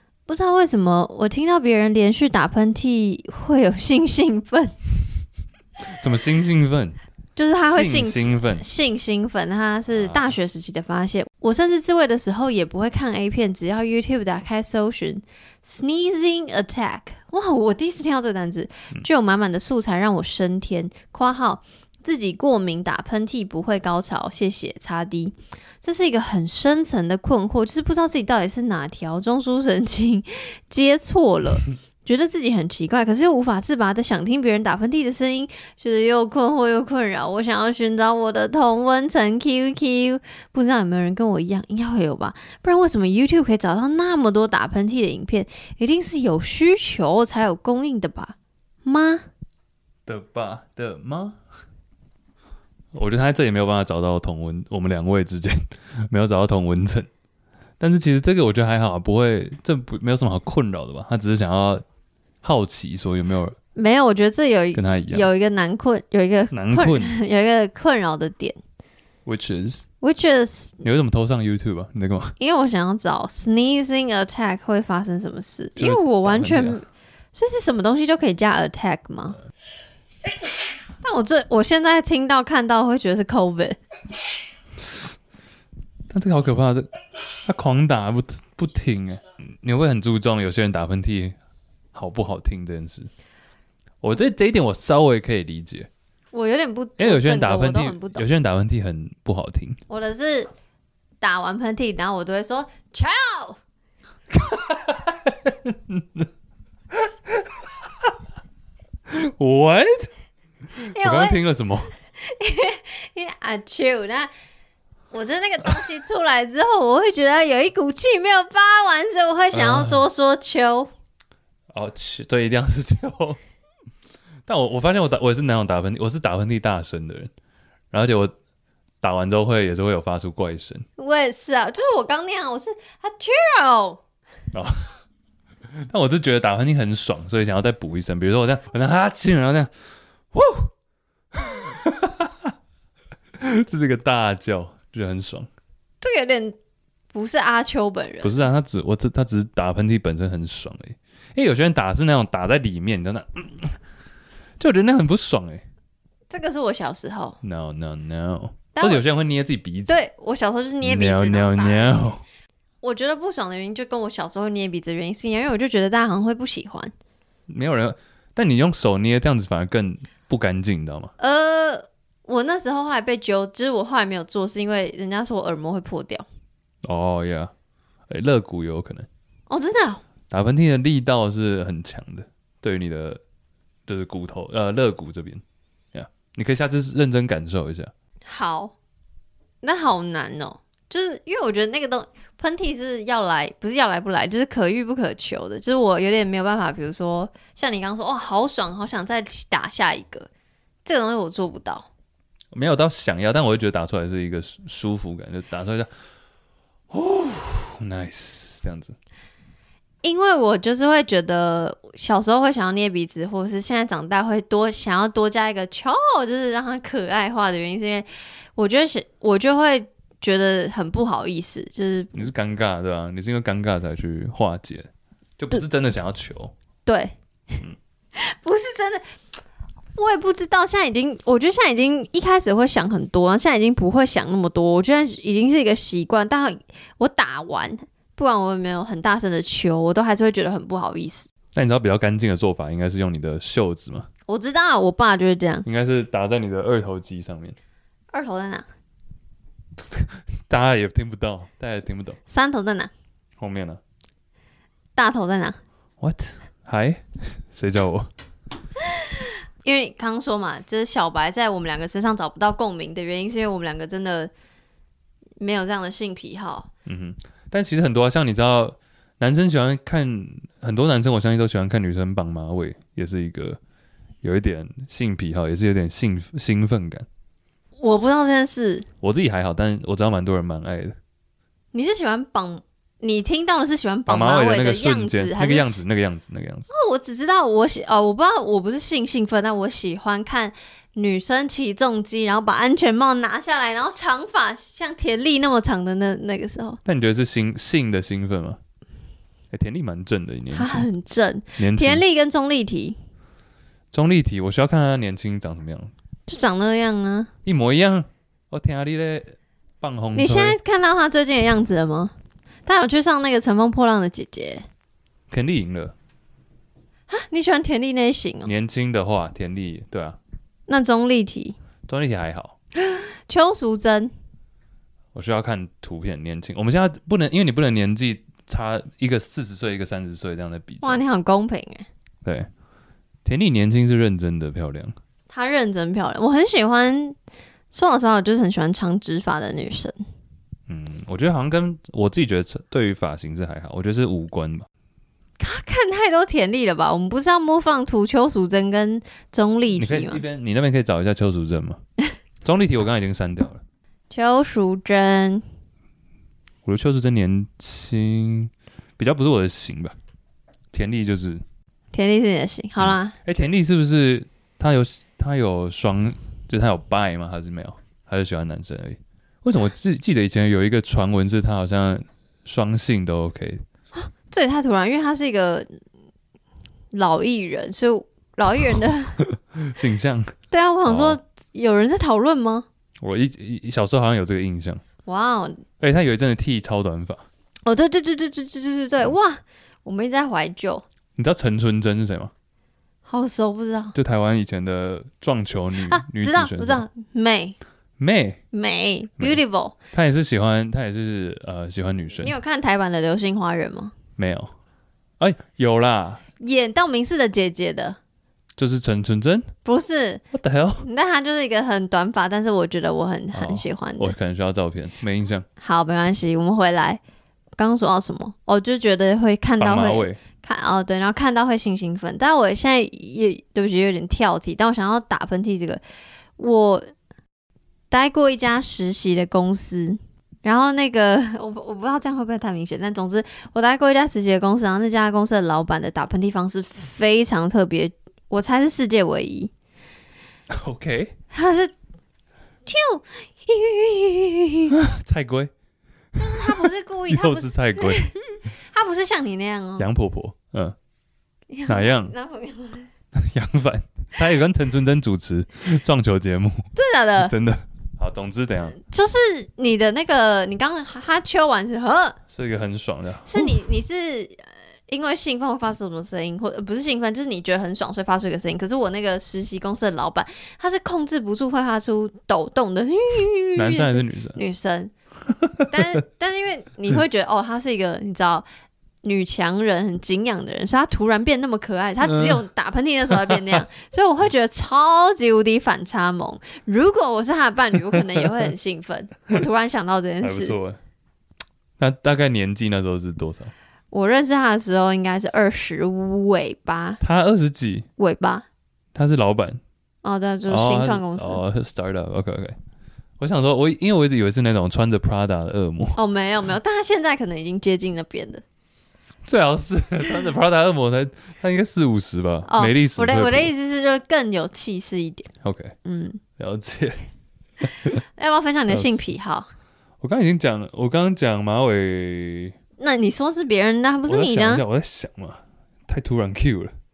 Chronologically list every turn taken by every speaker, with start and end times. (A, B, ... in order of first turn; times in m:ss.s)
0:00.3-0:04.7 A
0:05.9-0:07.0 B
0:07.4-0:49.2 A
0:07.6-0:08.6 B
0:09.9-0:10.3 B
0:50.1-0:51.4 B
0:52.9-0:57.1 B
0:57.8-1:01.8 B
1:02.4-1:03.6 B
1:03.8-1:08.6 A
1:04.7-1:05.3 B
1:06.5-1:07.2 B
1:09.2-1:09.8 B
1:10.0-1:10.8 A
1:10.8-1:12.3 B
1:12.4-1:19.4 A
1:15.8-1:16.8 B
1:21.0-1:23.8 A
1:24.8-1:25.2 B
1:26.1-1:26.9 B
1:27.4-1:31.4 B
1:31.9-1:33.1 B
1:34.0-1:35.9 B
1:36.3-1:38.3 A
1:37.0-1:39.8 B
1:39.9-1:40.5 A
1:41.2-1:43.6 A
1:44.3-1:46.3 B
1:46.9-1:48.1 B
1:49.1-1:50.1 B
1:50.8-1:51.9 B
1:50.8-1:51.4 A
1:52.2-1:54.3 A
1:55.1-2:00.9 A
1:59.5-2:00.1 B
2:01.7-2:03.4 B
2:04.5-2:07.3 B
2:07.9-2:08.3 B
2:09.0-2:10.8 B
2:11.0-2:14.0 A
2:15.9-2:19.7 B
2:20.3-2:20.7 B
2:21.3-2:22.5 B
2:23.4-2:25.5 B
2:26.0-2:26.6 A
2:27.1-2:28.4 A
2:28.2-2:33.8 B
2:34.6-2:35.6 B
2:36.3-2:37.4 A
2:37.4-2:40.0 B
2:38.8-2:39.0 A
2:39.9-2:42.0 A
2:40.8-2:42.2 B
2:42.8-2:46.9 A
2:47.5-2:51.1 B
2:51.2-2:56.2 A
2:56.8-2:57.5 B
2:58.1-2:59.1 B
2:59.5-3:00.0 A
3:00.3-3:03.2 B
3:03.9-3:05.4 B
3:05.9-3:07.9 B
3:08.3-3:08.7 A
3:09.6-3:20.3 A
3:20.8-3:21.9 A
3:22.5-3:25.9 B
3:26.9-3:28.9 B
3:30.0-3:42.3 A
3:42.1-3:46.5 B
3:46.8-3:47.1 A
3:48.2-3:49.0 A
3:50.0-4:01.3 A
4:01.5-4:04.1 B
4:04.3-4:05.6 A
4:05.6-4:07.6 B
4:08.1-4:08.6 A
4:09.8-4:12.2 B
4:12.3-4:12.9 A
4:13.4-4:13.8 B
4:15.0-4:15.6 A
4:16.0-4:18.1 B
4:19.6-4:24.3 A
4:25.4-4:26.7 A
4:26.8-4:33.6 B
4:34.2-4:37.0 B
4:37.8-4:38.8 A
4:39.0-4:41.0 B
4:41.7-4:45.8 A
4:44.1-4:46.7 B
4:46.7-4:56.8 A
4:56.8-4:58.6 B
4:59.5-5:00.9 B
5:00.5-5:03.0 A
5:01.6-5:02.0 B
5:03.9-5:05.9 B
5:06.3-5:07.3 A
5:07.4-5:10.6 B
5:10.1-5:12.1 A
5:12.6-5:14.6 A
5:15.3-5:15.9 B
5:17.1-5:18.5 A
5:18.4-5:20.2 B
5:20.7-5:21.6 A
5:21.9-5:22.5 B
5:22.8-5:24.1 A
5:25.1-5:31.0 B
5:30.8-5:31.9 A
5:33.2-5:34.9 B
5:35.3-5:37.2 A
5:37.7-5:40.0 A
5:40.7-5:44.6 B
5:45.4-5:50.2 A
5:49.7-5:51.8 B
5:52.4-5:53.6 B
5:54.1-5:55.4 A
5:56.6-6:00.0 B
6:00.7-6:01.4 B
6:01.9-6:03.1 A
6:02.8-6:13.6 B
6:13.9-6:15.7 A
6:16.9-6:19.2 A
6:19.5-6:20.3 B
6:20.5-6:22.6 A
6:20.8-6:21.2 B
6:23.0-6:24.8 B
6:25.0-6:25.6 A
6:25.8-6:27.2 B
6:27.6-6:30.8 A
6:31.2-6:32.3 B
6:33.0-6:34.0 A
6:33.9-6:36.8 B
6:35.8-6:37.6 A
6:38.0-6:38.4 B
6:38.5-6:39.7 A
6:39.9-6:42.3 B
6:42.1-6:43.9 A
6:44.2-6:44.5 B
6:45.2-6:46.2 B
6:46.4-6:48.0 A
6:48.6-6:49.5 B
6:49.6-6:50.2 A
6:50.3-6:50.8 B
6:50.8-6:54.1 A
6:53.3-6:55.4 B
6:55.6-6:57.0 A
6:57.6-7:05.8 A
6:59.6-7:00.2 B
7:06.4-7:06.8 A
7:07.9-7:19.5 A
7:20.5-7:21.1 B
7:21.3-7:21.7 A
7:22.6-7:24.7 A
7:24.7-7:25.5 B
7:26.2-7:29.9 A
7:26.3-7:28.1 B
7:29.8-7:30.7 B
7:31.5-7:32.9 A
7:31.7-7:32.1 B
7:33.1-7:36.6 B
7:36.7-7:37.3 A
7:37.2-7:38.8 B
7:38.8-7:42.2 A
7:42.3-7:43.6 B
7:43.2-7:54.9 A
7:53.6-7:54.4 B
7:55.4-7:55.8 B
7:55.7-7:58.4 A
7:59.0-8:10.6 A
8:02.0-8:02.4 B
8:10.2-8:10.8 B
8:11.8-8:13.5 B
8:13.9-8:17.0 A
8:17.0-8:17.8 B
8:18.0-8:18.4 A
8:18.9-8:19.6 B
8:20.0-8:21.4 A
8:20.5-8:22.6 B
8:23.2-8:26.0 B
8:26.0-8:28.4 A
8:29.2-8:33.5 B
8:32.5-8:35.3 A
8:35.4-8:35.7 B
8:35.8-8:36.2 A
8:36.4-8:37.0 B
8:38.2-8:39.5 A
8:38.7-8:39.0 B
8:40.0-8:42.6 B
8:42.8-8:44.6 A
8:44.0-8:46.7 B